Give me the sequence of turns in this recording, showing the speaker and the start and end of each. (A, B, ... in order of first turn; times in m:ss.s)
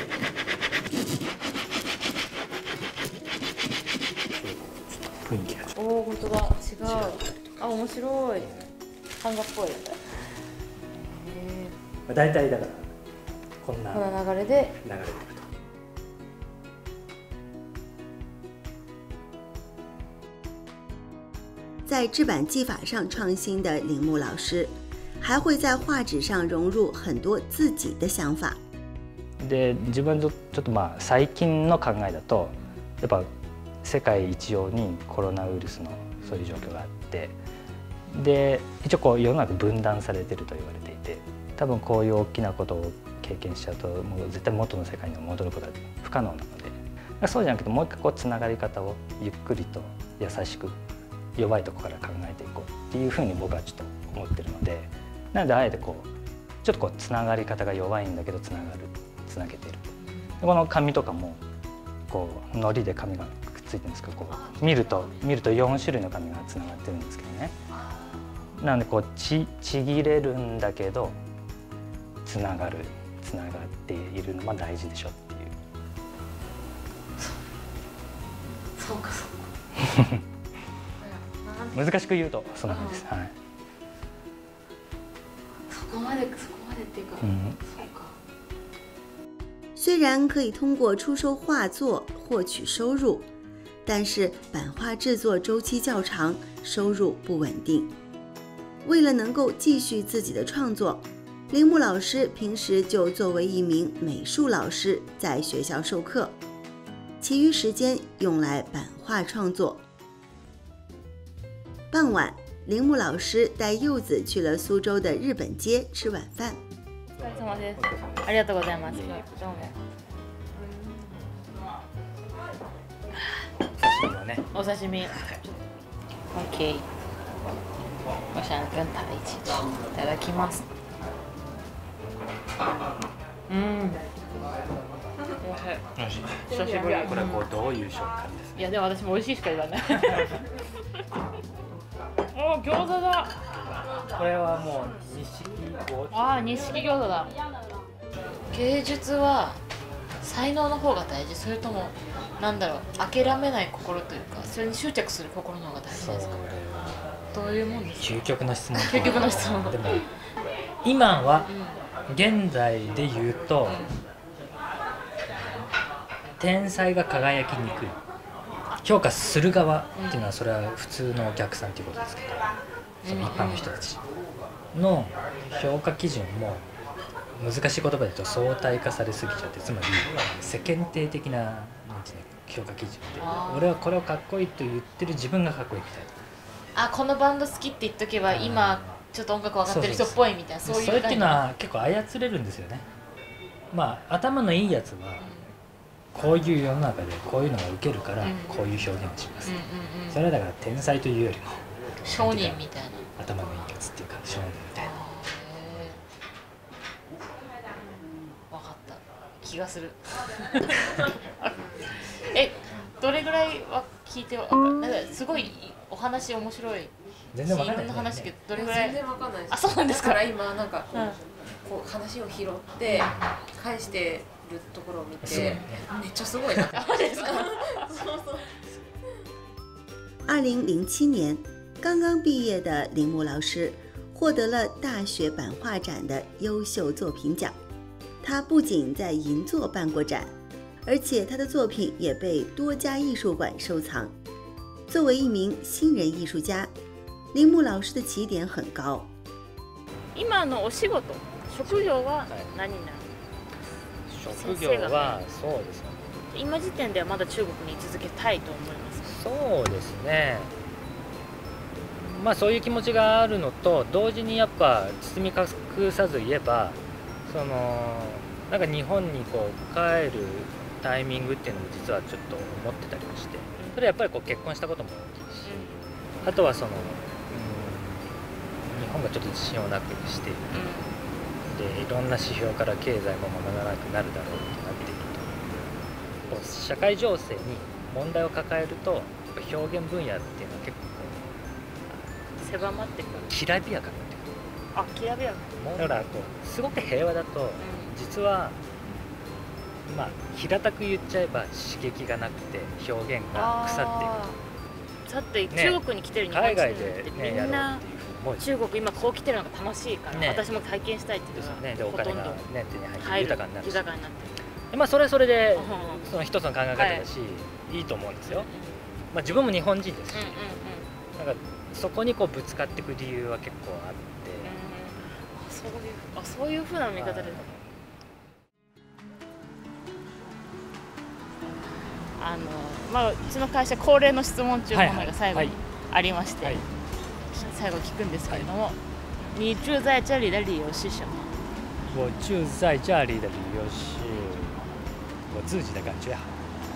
0:04.4-0:05.8 A
0:05.8-0:08.5 B
0:06.8-0:07.6 A
0:08.4-0:08.7 A
0:09.2-0:10.3 B
0:10.9-0:11.8 B
0:12.1-0:12.9 A
0:13.6-0:14.1 A
0:13.9-0:14.8 B
0:14.8-0:15.5 A
0:21.9-0:28.6 C
0:29.4-0:33.3 A
0:33.8-0:37.4 A
0:36.2-0:36.7 B
0:38.1-0:50.8 A
0:51.4-0:56.1 A
0:56.6-1:01.4 A
1:02.1-1:07.6 A
1:04.3-1:05.5 B
1:07.7-1:08.5 B
1:08.6-1:11.2 A
1:12.2-1:15.6 A
1:18.8-1:19.5 B
1:20.0-1:20.2 A
1:21.0-1:21.7 B
1:21.7-1:23.3 A
1:22.7-1:23.0 B
1:25.7-1:28.1 B
1:27.2-1:27.6 A
1:29.8-1:33.3 C
1:33.8-1:37.9 C
1:38.8-1:46.4 C
1:47.2-1:49.8 C
1:51.9-1:56.6 C
1:57.2-1:59.7 B
1:57.2-1:59.8 A
2:03.2-2:03.5 B
2:03.8-2:04.5 A
2:04.5-2:05.2 B
2:05.1-2:05.4 A
2:06.3-2:06.8 B
2:08.3-2:10.7 B
2:13.5-2:14.0 B
2:15.4-2:15.8 B
2:16.0-2:18.7 A
2:16.5-2:17.5 B
2:18.6-2:20.4 B
2:22.3-2:23.3 B
2:23.5-2:26.4 A
2:26.1-2:27.3 B
2:28.5-2:29.6 B
2:30.2-2:36.4 B
2:35.9-2:37.2 A
2:37.3-2:38.2 B
2:37.8-2:40.1 A
2:38.7-2:39.8 B
2:40.8-2:41.5 A
2:41.5-2:41.8 B
2:42.1-2:43.8 A
2:43.7-2:44.0 B
2:46.4-2:48.0 A
2:48.8-2:54.0 A
2:50.0-2:50.3 B
2:53.0-2:53.7 B
2:54.7-2:56.7 A
2:57.4-3:06.2 A
3:03.2-3:03.8 B
3:06.8-3:11.4 B
3:08.3-3:09.0 A
3:09.7-3:12.9 A
3:13.7-3:15.3 A
3:15.2-3:15.5 B
3:16.2-3:22.6 A
3:18.2-3:18.6 B
3:19.4-3:20.2 B
3:22.0-3:23.1 B
3:23.2-3:24.9 A
3:24.8-3:26.0 B
3:28.5-3:36.9 B
3:37.3-3:38.4 A
3:37.5-3:40.3 B
3:38.6-3:46.7 D
3:43.0-3:43.3 A
3:45.2-3:45.9 A
3:46.7-3:47.9 B
3:50.3-3:57.5 C
3:58.2-4:00.3 C
4:00.9-4:04.2 C
4:04.9-4:06.7 C
4:07.3-4:09.1 C
4:10.1-4:13.1 B
4:11.7-4:12.6 A
4:14.1-4:16.1 A
4:14.2-4:15.2 B
4:16.3-4:19.2 B
4:19.0-4:20.6 A
4:21.8-4:40.6 A
4:33.6-4:33.8 B
4:35.4-4:36.4 B
4:40.5-4:41.0 B
4:41.5-4:45.5 A
4:46.3-4:51.3 A
4:51.9-4:53.3 B
4:53.1-4:54.4 A
4:54.7-4:56.1 B
4:55.6-4:58.6 A
4:57.6-4:57.9 B
4:59.9-5:04.3 A
5:03.3-5:04.4 B
5:05.1-5:07.8 B
5:05.5-5:09.1 A
5:08.4-5:12.4 B
5:10.1-5:10.5 A
5:11.3-5:13.8 A
5:13.0-5:14.4 B
5:14.7-5:18.5 A
5:15.6-5:16.1 B
5:16.8-5:17.1 B
5:18.3-5:18.8 B
5:19.1-5:20.4 A
5:20.1-5:20.9 B
5:21.2-5:24.6 A
5:24.4-5:27.6 B
5:27.0-5:27.7 A
5:31.6-5:36.6 B
5:34.7-5:35.6 A
5:36.4-5:36.7 A
5:37.3-5:41.4 B
5:41.9-5:44.8 A
5:45.3-5:46.4 A